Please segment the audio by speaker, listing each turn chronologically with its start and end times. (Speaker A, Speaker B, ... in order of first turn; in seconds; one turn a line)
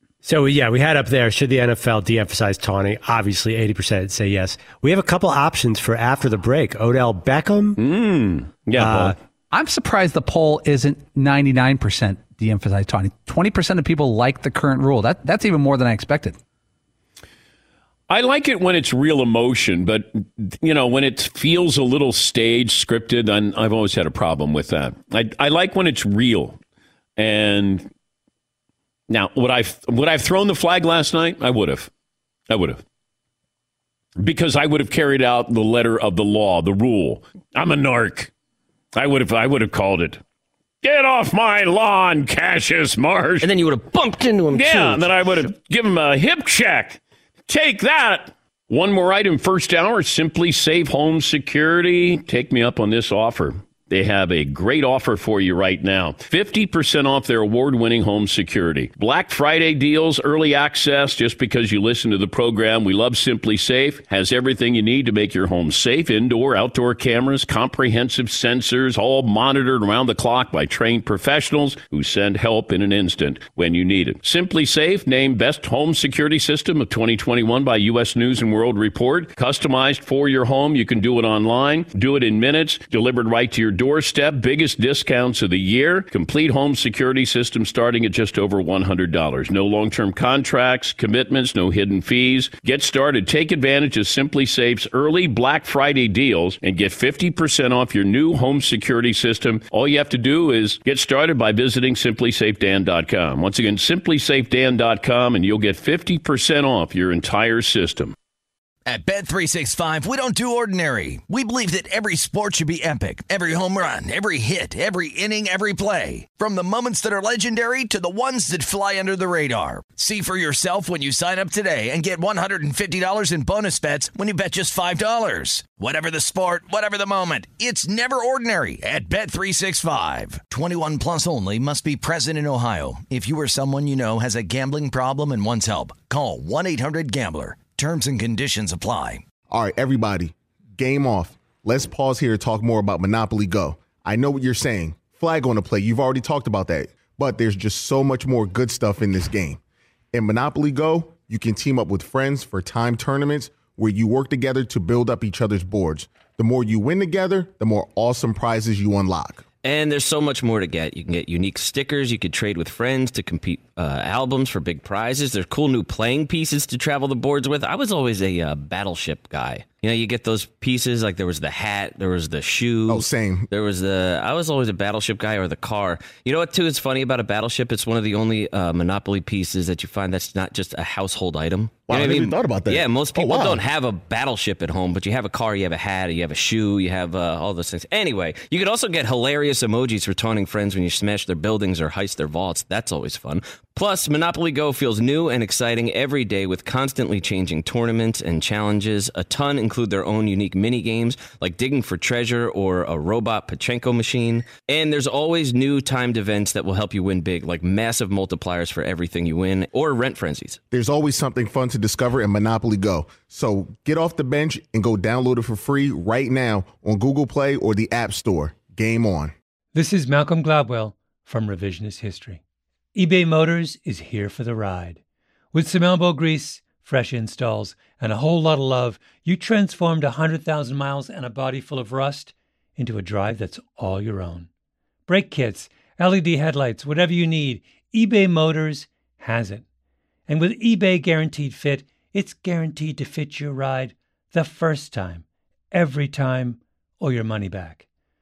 Speaker A: 0.2-7.8
Speaker B: 7.8-9.1
Speaker A: 8.8-9.1
Speaker C: 9.5-16.4
Speaker B: 18.1-26.6
Speaker B: 27.2-27.9
Speaker B: 29.1-31.9
Speaker B: 32.5-32.8
Speaker B: 34.2-38.3
Speaker B: 39.0-40.2
Speaker B: 40.8-43.5
Speaker D: 43.4-45.3
Speaker B: 44.5-108.2
Speaker E: 108.9-139.2
Speaker F: 139.5-149.6
Speaker F: 150.1-159.4
Speaker D: 159.6-210.6
Speaker F: 172.9-173.5
Speaker F: 181.9-183.6
Speaker F: 210.7-219.3
Speaker G: 219.7-222.4
Speaker G: 222.9-225.0
Speaker G: 225.5-234.5
Speaker G: 235.1-239.7
Speaker G: 240.3-247.8